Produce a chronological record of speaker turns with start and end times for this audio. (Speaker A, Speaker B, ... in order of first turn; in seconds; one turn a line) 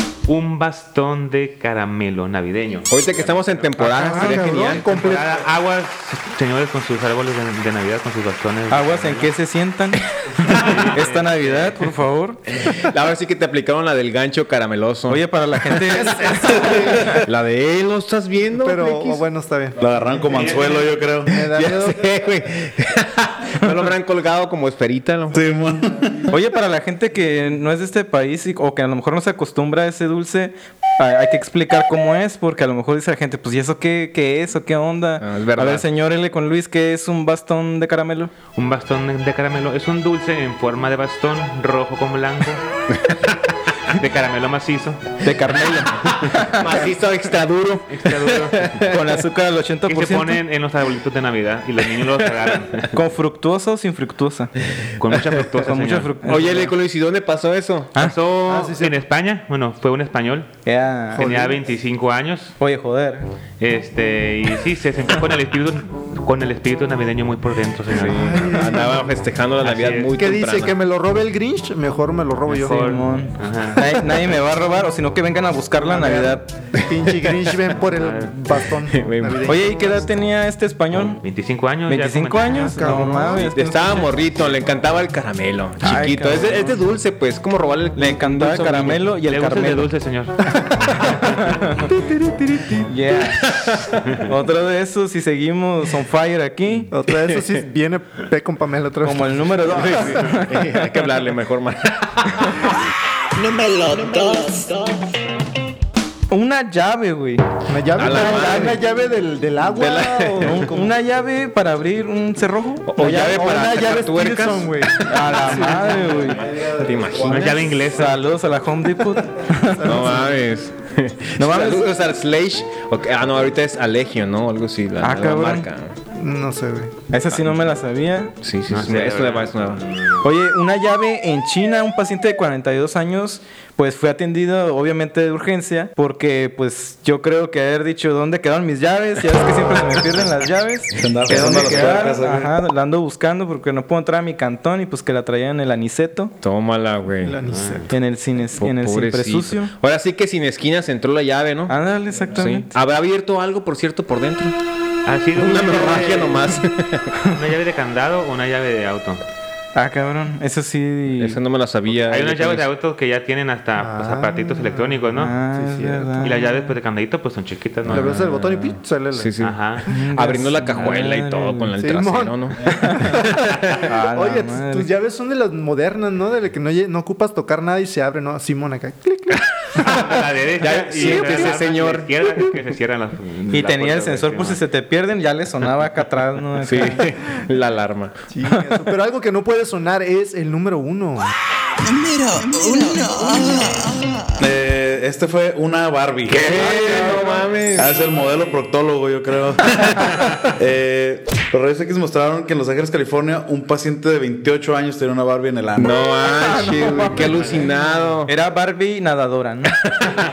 Speaker A: 0.3-9.3
Speaker B: 2.9-5.2
Speaker C: 3.8-5.4
Speaker D: 8.7-12.4
Speaker A: 10.5-11.9
Speaker B: 12.6-16.1
Speaker D: 15.1-17.2
Speaker C: 15.9-17.1
Speaker B: 16.8-19.2
Speaker C: 18.6-19.8
Speaker E: 19.8-21.3
Speaker A: 20.3-20.9
Speaker C: 21.3-22.1
Speaker B: 21.5-25.5
Speaker E: 25.3-26.3
Speaker D: 26.3-38.3
Speaker B: 35.2-35.9
Speaker A: 38.5-42.6
Speaker B: 42.9-43.2
Speaker A: 43.9-45.0
Speaker D: 45.2-46.5
Speaker B: 46.0-49.2
Speaker A: 47.9-48.8
Speaker D: 48.9-50.4
Speaker A: 49.9-52.9
Speaker D: 52.9-54.5
Speaker B: 54.7-55.2
Speaker A: 55.0-56.7
Speaker D: 55.6-56.7
Speaker B: 56.2-57.9
Speaker A: 58.0-60.5
Speaker C: 58.5-59.0
Speaker D: 60.7-61.4
Speaker A: 61.1-62.5
Speaker C: 61.1-61.7
Speaker D: 62.6-63.3
Speaker A: 63.6-68.9
Speaker B: 67.9-70.7
Speaker C: 68.1-69.1
Speaker A: 69.6-70.1
Speaker C: 70.2-73.0
Speaker A: 72.5-73.8
Speaker D: 72.7-76.5
Speaker C: 75.8-80.0
Speaker B: 76.8-77.5
Speaker A: 78.0-78.3
Speaker B: 78.9-79.5
Speaker D: 79.5-81.2
Speaker A: 81.2-82.9
Speaker D: 81.9-84.0
Speaker C: 82.4-83.5
Speaker B: 83.3-89.1
Speaker D: 85.8-86.8
Speaker D: 88.0-89.9
Speaker A: 89.2-90.4
Speaker C: 90.6-91.1
Speaker D: 91.1-91.8
Speaker C: 91.8-92.9
Speaker D: 92.8-93.5
Speaker B: 93.5-94.2
Speaker D: 94.3-96.9
Speaker C: 96.9-100.1
Speaker B: 97.2-97.5
Speaker D: 99.0-100.9
Speaker B: 99.7-102.6
Speaker F: 103.4-105.1
Speaker D: 106.3-108.7
Speaker C: 107.7-110.9
Speaker B: 108.0-108.8
Speaker B: 109.8-110.7
Speaker D: 110.4-113.5
Speaker B: 112.9-115.7
Speaker C: 113.0-116.1
Speaker D: 115.1-116.4
Speaker E: 115.7-118.0
Speaker B: 116.8-117.8
Speaker A: 117.3-118.2
Speaker D: 117.9-120.2
Speaker C: 119.8-120.4
Speaker B: 119.8-126.0
Speaker D: 121.4-121.9
Speaker D: 125.0-125.7
Speaker C: 126.1-126.9
Speaker D: 127.1-128.3
Speaker B: 128.4-129.8
Speaker A: 128.7-130.2
Speaker D: 130.2-146.3
Speaker E: 140.9-142.6
Speaker B: 141.3-141.8
Speaker B: 146.4-147.4
Speaker C: 147.2-147.9
Speaker A: 147.5-147.9
Speaker D: 147.9-149.7
Speaker B: 148.6-151.8
Speaker D: 151.7-152.7
Speaker B: 152.3-154.6
Speaker A: 155.1-156.5
Speaker B: 155.3-157.2
Speaker C: 155.9-156.3
Speaker A: 157.3-159.2
Speaker D: 159.8-161.4
Speaker B: 161.2-162.7
Speaker A: 161.9-165.3
Speaker C: 163.8-166.4
Speaker D: 165.2-166.7
Speaker A: 166.2-168.3
Speaker C: 167.9-169.4
Speaker B: 167.9-173.9
Speaker A: 169.4-169.9
Speaker D: 169.9-171.7
Speaker A: 170.8-171.1
Speaker C: 171.8-173.6
Speaker D: 172.7-173.1
Speaker D: 173.9-174.9
Speaker C: 174.1-180.0
Speaker A: 179.8-184.6
Speaker B: 180.6-182.6
Speaker C: 181.0-181.6
Speaker D: 183.5-187.1
Speaker B: 186.6-188.2
Speaker C: 188.3-191.3
Speaker D: 188.5-188.8
Speaker F: 191.8-194.3
Speaker E: 194.4-197.2
Speaker B: 196.3-198.0
Speaker E: 197.7-206.0
Speaker B: 205.8-208.3
Speaker D: 206.4-207.5
Speaker A: 207.2-207.9
Speaker D: 208.3-209.8
Speaker B: 209.9-210.2